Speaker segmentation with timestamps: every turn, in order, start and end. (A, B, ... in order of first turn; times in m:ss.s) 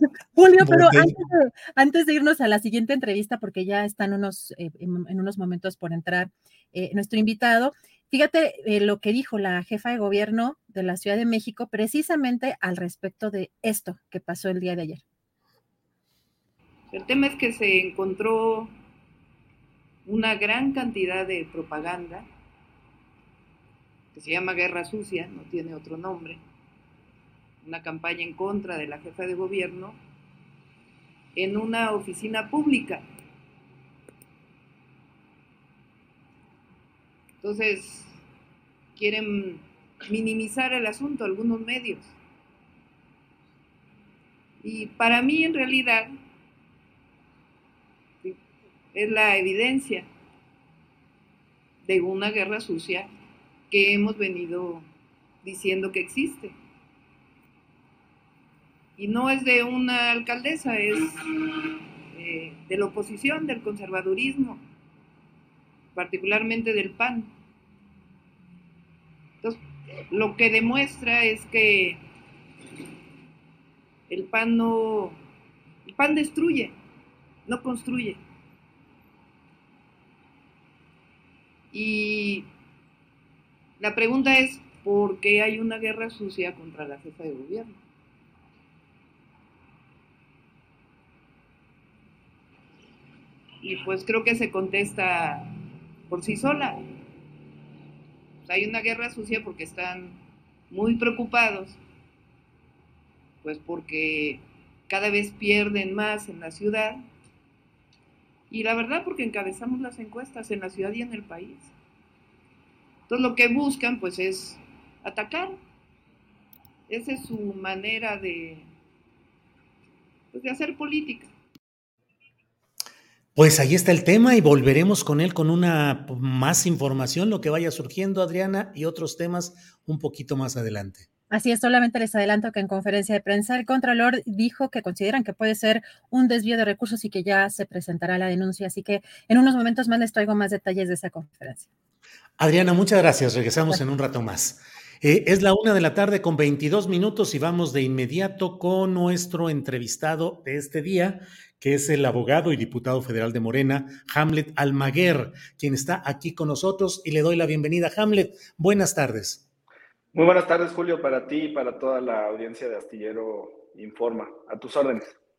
0:00.3-0:15.0 A
0:00.6-0:01.2 B
0:16.9-0:18.7 C
0:20.0-0:22.2 C
0:24.1-0:26.4 C
0:27.6-0:30.0 C
0:31.3-0:33.0 C
0:37.4-0:38.2 C
0:39.0-0:42.1 C
0:44.6-0:46.1 C
0:48.9-0:50.1 C
0:51.8-0:53.1 C
0:53.7-0:54.9 C
0:55.4-0:56.6 C
0:59.0-1:01.3 C
1:02.1-1:04.6 C
1:05.9-1:07.3 C
1:09.4-1:12.0 C
1:14.1-1:15.2 C
1:15.8-1:16.7 C
1:17.4-1:18.2 C
1:21.7-1:22.5 C
1:23.8-1:27.8 C
1:33.6-1:35.5 C
1:36.1-1:36.8 C
1:38.4-1:40.2 C
1:40.7-1:41.8 C
1:43.4-1:47.0 C
1:48.5-1:51.7 C
1:53.1-1:55.6 C
1:56.9-1:58.7 C
2:00.3-2:01.3 C
2:03.3-2:11.1 B
2:11.3-2:21.7 A
2:22.4-2:39.4 B
2:40.1-2:45.2 D